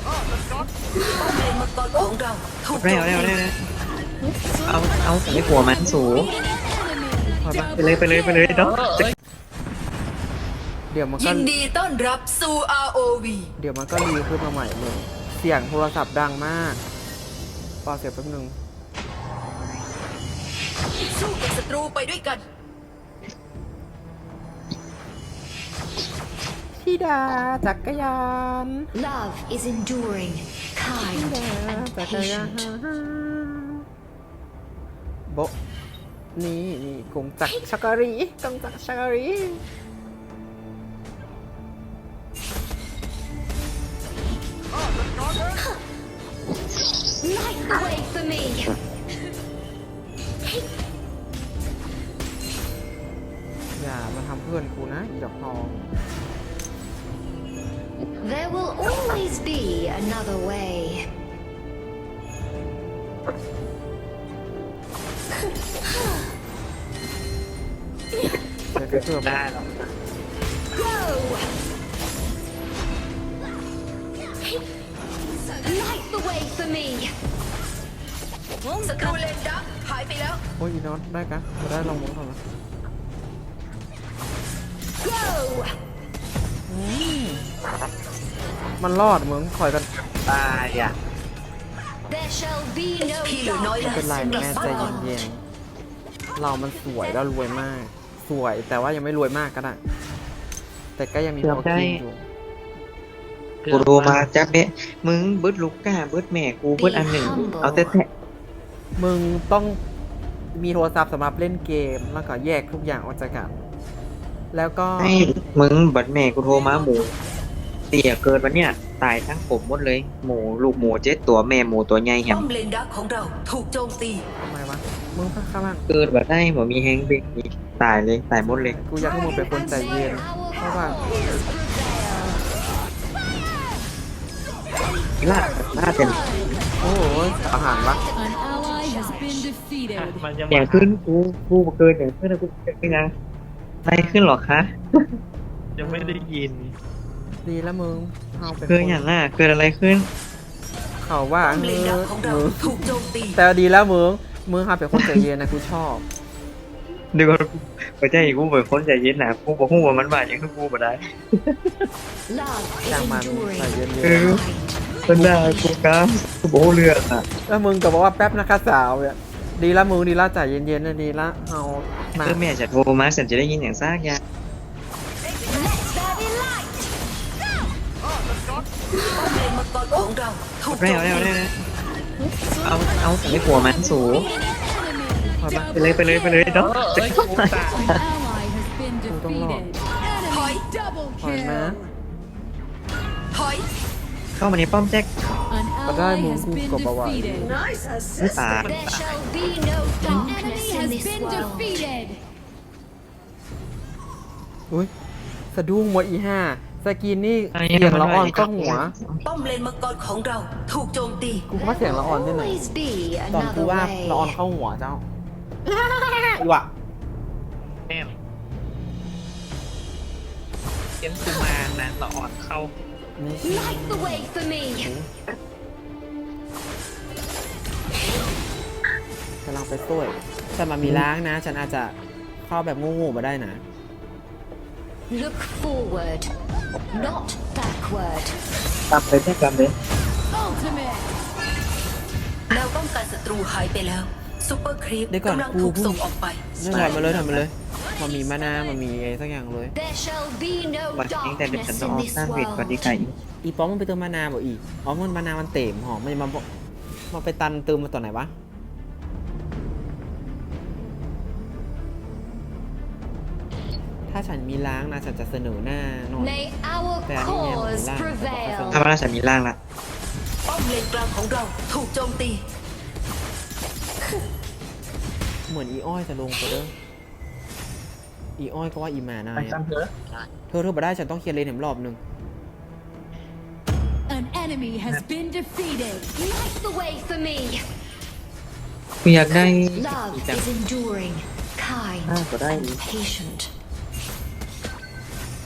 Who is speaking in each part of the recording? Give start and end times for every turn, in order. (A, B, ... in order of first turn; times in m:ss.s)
0:01.1-0:03.4 A
0:02.7-0:03.6 B
0:04.6-0:06.3 B
0:05.3-0:07.4 C
0:07.4-0:07.9 D
0:07.6-0:09.0 B
0:08.1-0:08.4 C
0:08.8-0:09.1 E
0:10.9-0:11.5 D
0:11.2-0:13.5 A
0:13.6-0:16.8 D
0:17.8-0:18.6 D
0:21.0-0:22.4 A
0:26.8-0:28.9 D
0:28.9-0:32.7 F
0:31.0-0:33.8 D
0:35.3-0:35.5 D
0:36.4-0:39.6 D
0:47.2-0:48.8 F
0:53.8-0:55.8 D
0:58.2-1:01.1 F
1:08.8-1:09.4 D
1:08.8-1:09.7 B
1:10.7-1:11.5 F
1:15.6-1:17.1 F
1:18.6-1:19.2 F
1:18.8-1:20.4 A
1:20.6-1:22.4 D
1:25.0-1:25.7 F
1:26.7-1:27.4 D
1:28.8-1:29.9 D
1:30.3-1:31.0 B
1:32.1-1:35.2 F
1:33.1-1:35.0 A
1:33.8-1:35.4 D
1:36.4-1:39.8 D
1:41.0-1:42.3 D
1:41.4-1:42.0 B
1:43.6-1:44.3 E
1:43.7-1:48.1 B
1:46.8-1:48.0 F
1:49.0-1:49.8 D
1:50.5-1:53.5 D
1:54.5-1:55.2 D
1:55.0-1:57.1 B
1:57.9-2:02.5 B
2:02.3-2:04.2 A
2:04.4-2:05.9 D
2:05.9-2:08.8 B
2:08.4-2:11.0 D
2:09.5-2:12.4 F
2:15.2-2:16.3 B
2:16.8-2:18.0 D
2:16.8-2:19.5 F
2:18.3-2:20.2 C
2:19.9-2:20.9 E
2:20.5-2:23.1 B
2:23.8-2:25.0 B
2:23.9-2:24.2 D
2:25.8-2:26.4 E
2:25.8-2:26.3 D
2:26.3-2:26.8 B
2:27.4-2:29.1 D
2:28.5-2:30.1 B
2:31.0-2:36.0 D
2:31.4-2:33.4 A
2:37.1-2:41.7 B
2:42.3-2:45.7 F
2:42.9-2:44.4 D
2:44.0-2:44.4 B
2:45.1-2:47.2 B
2:47.5-2:52.4 D
2:52.2-2:54.2 B
2:59.1-3:01.4 A
3:00.7-3:01.5 B
3:02.6-3:04.3 B
3:03.8-3:06.6 C
3:05.4-3:05.7 D
3:05.7-3:08.0 B
3:06.6-3:07.8 E
3:07.8-3:11.6 C
3:09.1-3:09.7 D
3:10.3-3:10.6 A
3:11.2-3:11.8 D
3:13.3-3:13.7 A
3:14.4-3:15.1 B
3:15.5-3:17.5 C
3:15.9-3:17.6 D
3:18.2-3:18.7 B
3:18.5-3:19.2 E
3:18.6-3:21.9 F
3:20.1-3:22.2 C
3:25.5-3:28.9 D
3:27.5-3:29.2 B
3:29.2-3:31.5 A
3:31.5-3:32.8 D
3:31.6-3:34.4 F
3:33.3-3:35.0 D
3:35.6-3:36.7 D
3:37.9-3:38.2 E
3:41.0-3:42.7 E
3:43.2-3:45.1 D
3:43.4-3:44.9 F
3:49.4-3:53.6 D
3:55.1-3:56.3 F
3:56.9-3:58.4 F
3:58.9-3:59.7 B
4:00.3-4:01.1 C
4:02.5-4:06.5 A
4:05.1-4:06.0 D
4:06.6-4:09.8 D
4:06.7-4:07.4 B
4:09.8-4:13.0 F
4:10.9-4:13.1 B
4:13.4-4:16.4 D
4:17.1-4:18.3 D
4:24.1-4:26.4 D
4:26.2-4:28.8 F
4:27.1-4:28.9 D
4:28.7-4:29.6 B
4:30.5-4:32.4 A
4:35.5-4:36.7 D
4:38.4-4:39.6 D
4:39.4-4:39.9 E
4:40.5-4:42.0 D
4:44.1-4:46.1 C
4:46.2-4:47.6 F
4:49.0-4:49.8 B
4:49.3-4:53.5 F
4:49.9-4:50.5 D
4:52.1-4:52.8 B